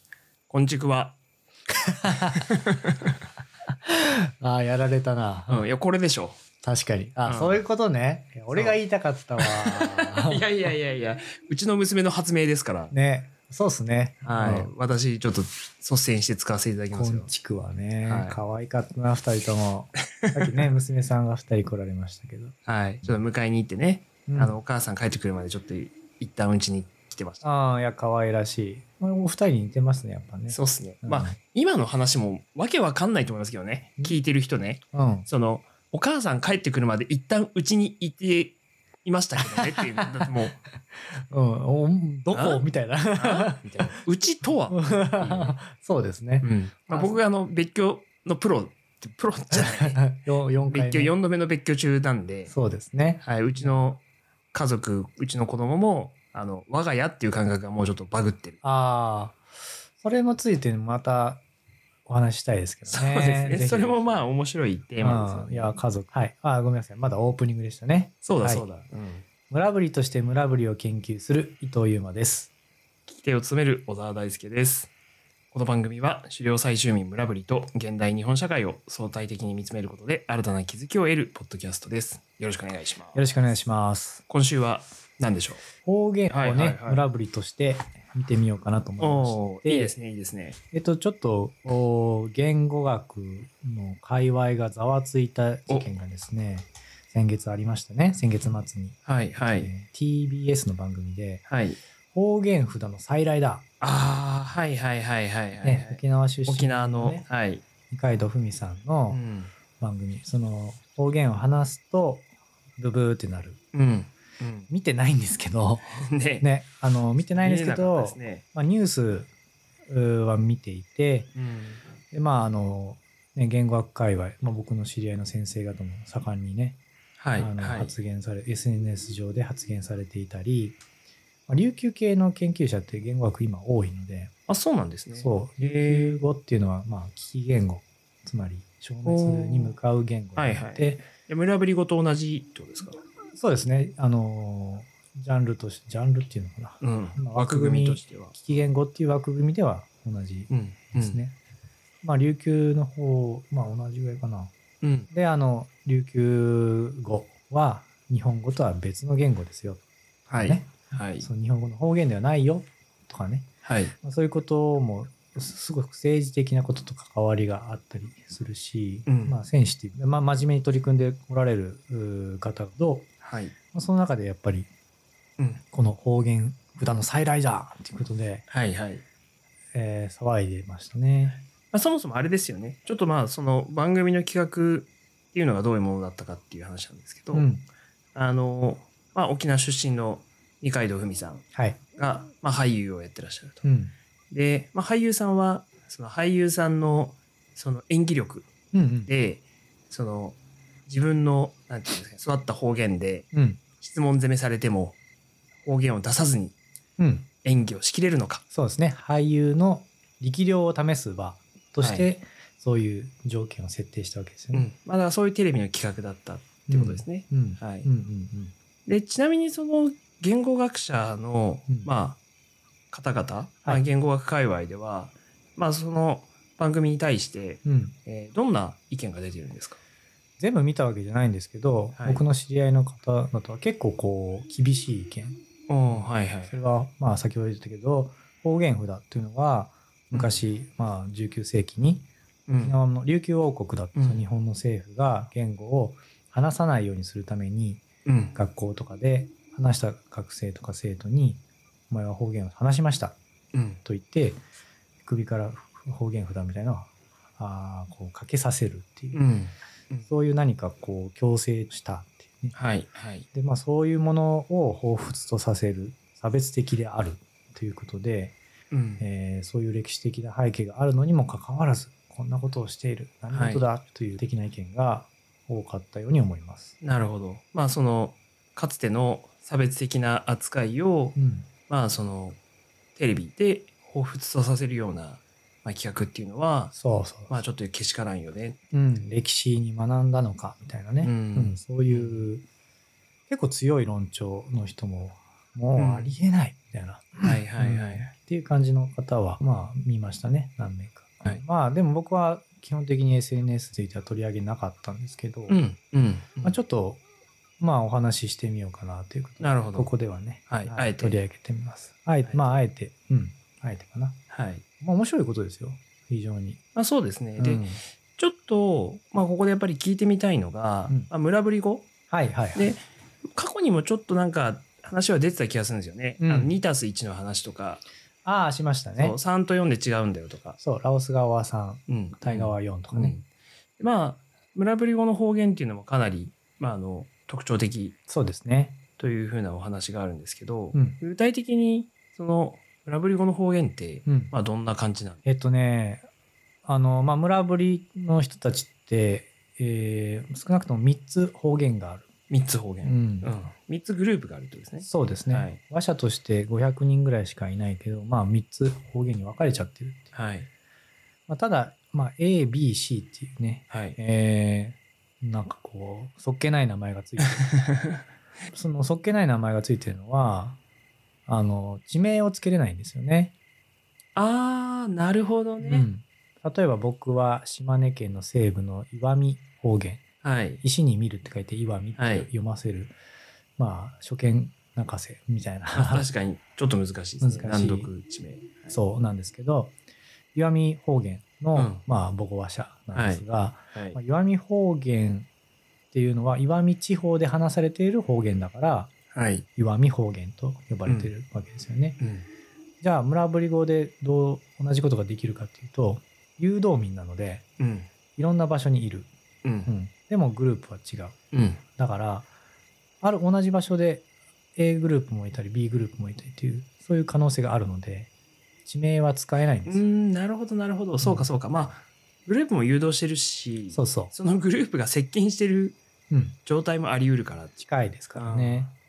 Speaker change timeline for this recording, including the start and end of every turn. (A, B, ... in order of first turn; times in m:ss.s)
0:00.5-0:01.2 A
0:01.8-0:02.5 B
0:02.5-0:03.1 A
0:03.8-0:05.7 B
0:05.5-0:06.4 A
0:06.6-0:10.4 B
0:07.3-0:07.6 A
0:08.5-0:08.8 A
0:09.4-0:12.9 A
0:12.9-0:14.7 B
0:14.2-0:17.3 A
0:16.9-0:23.2 B
0:18.0-0:18.4 A
0:22.7-0:27.5 A
0:24.3-0:24.6 B
0:27.4-0:31.4 B
0:30.5-0:40.6 A
0:34.9-0:35.3 B
0:39.4-0:40.3 B
0:41.3-0:44.0 B
0:42.3-0:42.6 A
0:43.2-0:45.6 A
0:44.7-0:47.2 B
0:46.4-0:50.0 A
0:49.5-0:51.2 B
0:50.7-0:52.5 A
0:52.5-0:53.9 B
0:53.2-0:54.0 A
0:54.5-0:58.6 A
0:58.6-0:59.4 B
1:00.0-1:01.4 B
1:02.1-1:04.2 B
1:02.9-1:05.8 A
1:05.0-1:08.7 B
1:08.2-1:09.2 A
1:09.5-1:12.5 B
1:13.1-1:14.9 A
1:15.5-1:23.2 A
1:23.1-1:24.2 B
1:24.3-1:25.6 A
1:25.8-1:30.0 B
1:26.3-1:27.0 A
1:29.0-1:30.6 A
1:30.7-1:41.4 B
1:39.1-1:39.7 A
1:41.5-1:41.8 A
1:42.1-1:43.7 B
1:43.8-1:47.6 A
1:45.6-1:47.3 B
1:47.9-1:49.2 B
1:49.1-1:49.5 A
1:49.8-1:53.6 B
1:53.7-1:54.7 A
1:54.7-1:59.3 B
1:55.9-1:56.5 A
1:57.4-1:58.4 A
1:59.9-2:01.3 B
2:01.4-2:01.8 A
2:02.1-2:06.8 B
2:07.2-2:07.9 A
2:07.4-2:10.8 B
2:11.5-2:14.3 B
2:14.5-2:16.2 A
2:15.2-2:21.1 B
2:19.0-2:19.8 A
2:20.4-2:23.0 A
2:23.4-2:31.4 B
2:26.8-2:28.3 A
2:30.5-2:31.2 A
2:32.0-2:34.5 B
2:34.8-2:35.1 A
2:35.1-2:39.8 B
2:40.3-2:41.3 A
2:40.4-2:43.5 B
2:43.6-2:44.0 A
2:44.0-2:53.1 B
2:49.1-2:49.4 A
2:53.2-2:53.6 A
2:53.7-2:54.7 B
2:55.7-2:58.4 B
2:58.5-2:59.0 A
2:59.7-3:01.4 B
3:01.7-3:07.5 A
3:07.3-3:07.7 B
3:08.2-3:11.4 A
3:11.5-3:11.8 B
3:12.0-3:13.6 A
3:13.6-3:13.9 B
3:14.3-3:18.5 A
3:18.7-3:19.1 B
3:19.1-3:20.4 A
3:20.9-3:23.3 A
3:23.3-3:23.6 B
3:23.8-3:25.0 A
3:25.6-3:26.6 A
3:27.0-3:27.3 B
3:27.4-3:28.4 A
3:28.5-3:34.7 B
3:31.8-3:32.1 A
3:34.5-3:37.9 A
3:36.7-3:38.5 B
3:38.9-3:42.2 A
3:42.9-3:49.8 A
3:47.6-3:48.0 B
3:50.4-4:07.8 B
3:52.0-3:52.2 A
3:55.7-3:56.6 A
4:00.1-4:00.4 A
4:02.5-4:02.8 A
4:04.0-4:04.2 A
4:08.0-4:08.4 A
4:08.3-4:13.2 B
4:13.5-4:13.8 A
4:13.8-4:14.4 B
4:15.0-4:19.2 B
4:19.1-4:20.1 A
4:20.0-4:22.6 B
4:22.5-4:23.3 A
4:23.3-4:28.4 B
4:28.7-4:29.0 A
4:29.0-4:36.8 B
4:33.3-4:33.6 A
4:36.8-4:41.2 A
4:41.2-4:41.5 B
4:41.7-4:42.4 A
4:43.0-4:46.7 A
4:46.7-4:47.4 B
4:47.3-4:48.6 A
4:48.7-4:52.4 B
4:51.0-4:52.2 A
4:53.3-5:05.6 B
4:55.8-4:56.1 A
4:57.2-4:58.1 A
5:05.5-5:06.6 A
5:06.4-5:07.0 B
5:07.6-5:14.2 B
5:09.4-5:09.9 A
5:10.5-5:11.2 A
5:12.3-5:12.6 A
5:14.3-5:14.6 A
5:14.8-5:16.6 B
5:16.8-5:17.6 A
5:17.4-5:17.8 B
5:18.2-5:21.9 A
5:22.1-5:22.7 B
5:22.6-5:27.8 A
5:26.2-5:26.6 B
5:28.2-5:29.2 B
5:29.0-5:30.6 A
5:30.6-5:33.2 B
5:31.9-5:33.2 A
5:33.8-5:38.0 A
5:38.1-5:38.8 B
5:39.0-5:45.2 A
5:40.7-5:41.0 B
5:44.1-5:44.3 B
5:45.2-5:46.1 B
5:46.6-5:52.1 B
5:52.3-5:55.6 A
5:52.8-5:53.3 B
5:54.8-6:00.1 B
6:00.1-6:00.5 A
6:01.3-6:07.5 B
6:03.7-6:04.0 A
6:08.5-6:10.6 B
6:11.3-6:13.3 B
6:14.2-6:15.9 A
6:15.6-6:20.0 B
6:20.2-6:20.6 A
6:20.6-6:23.0 B
6:22.0-6:22.3 A
6:23.6-6:26.1 B
6:25.7-6:28.8 A
6:27.2-6:27.9 B
6:28.7-6:29.7 B
6:30.4-6:35.3 B
6:31.6-6:31.8 A
6:32.9-6:34.0 A
6:35.9-6:38.9 B
6:39.1-6:39.5 A
6:39.6-6:42.0 B
6:42.0-6:42.3 A
6:42.8-6:47.4 B
6:47.6-6:47.9 A
6:48.2-6:49.1 B
6:49.4-6:49.7 A
6:49.6-6:51.2 B
6:51.3-6:51.6 A
6:51.7-6:52.3 B
6:53.0-6:58.1 B
6:58.6-6:59.9 B
6:59.7-7:05.8 A
7:01.0-7:01.3 B
7:03.7-7:04.1 B
7:06.1-7:06.4 B
7:06.4-7:07.5 A
7:07.6-7:08.7 B
7:08.2-7:08.7 A